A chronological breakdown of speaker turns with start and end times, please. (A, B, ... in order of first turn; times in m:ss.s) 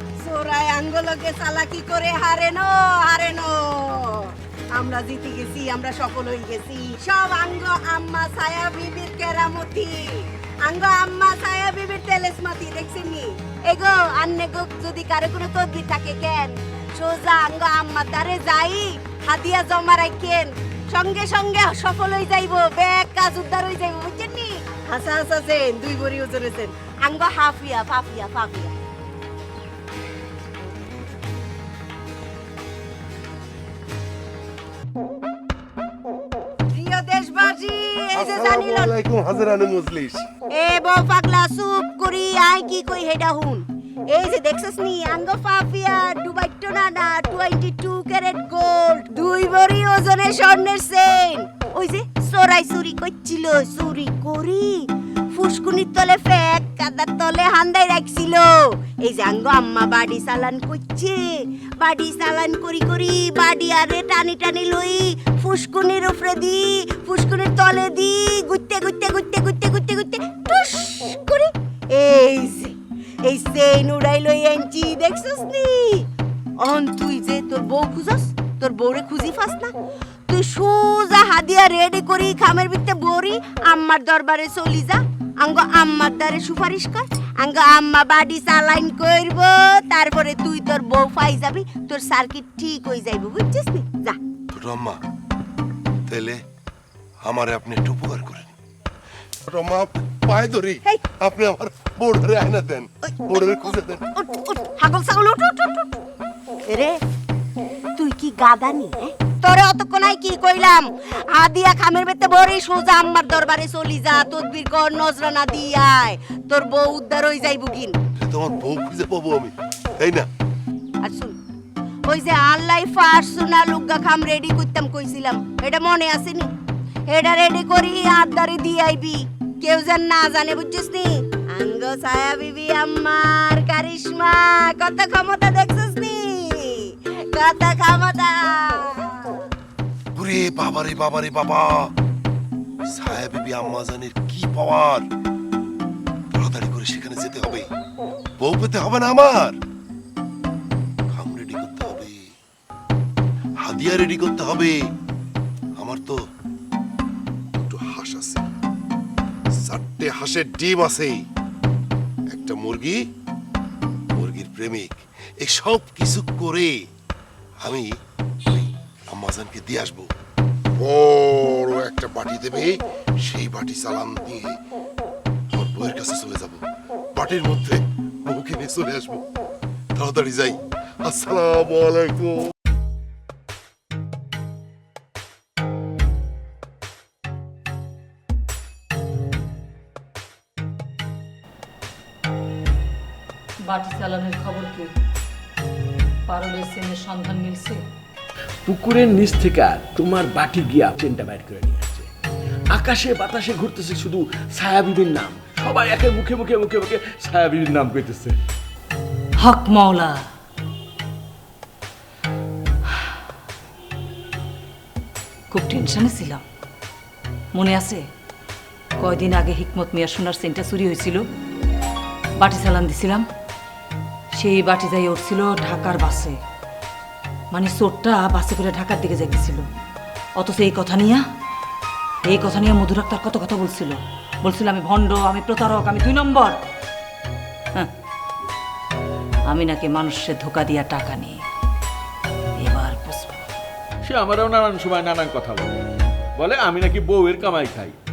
0:00.1-0:28.8 A
0:36.7-0:38.9 A
0:38.1-0:40.3 B
0:40.5-1:19.7 A
1:20.3-1:34.2 A
1:34.5-1:35.0 B
1:36.1-1:36.4 B
1:37.2-1:38.5 B
1:39.4-1:44.0 B
1:44.1-1:46.0 A
1:46.7-1:47.0 A
1:48.0-1:58.0 A
1:58.2-2:00.3 B
2:01.0-2:01.4 A
2:02.0-2:06.5 A
2:07.1-2:19.5 A
2:20.1-2:21.9 B
2:22.8-2:25.1 B
2:26.3-2:27.7 B
2:28.4-2:29.6 B
2:31.1-2:32.3 B
2:33.6-2:34.9 B
2:35.8-2:36.2 B
2:37.5-2:38.4 B
2:39.6-2:41.2 B
2:42.3-2:43.0 B
2:44.2-2:46.8 B
2:47.6-2:47.9 B
2:48.4-2:50.1 B
2:50.8-2:54.6 B
2:55.5-2:56.6 B
2:57.1-2:59.2 B
2:59.9-3:02.5 B
3:13.6-3:14.9 C
3:16.3-3:17.8 C
3:18.6-3:22.1 D
3:22.7-3:28.4 D
3:29.4-3:30.3 C
3:35.5-3:36.4 C
3:37.5-3:38.0 C
3:39.0-3:41.2 C
3:42.4-3:43.2 C
3:44.3-3:46.4 C
3:47.5-3:49.6 C
3:50.4-3:51.2 C
3:52.3-3:56.6 C
3:59.5-4:01.4 C
4:02.6-4:03.4 C
4:04.0-4:05.7 D
4:06.4-4:08.0 D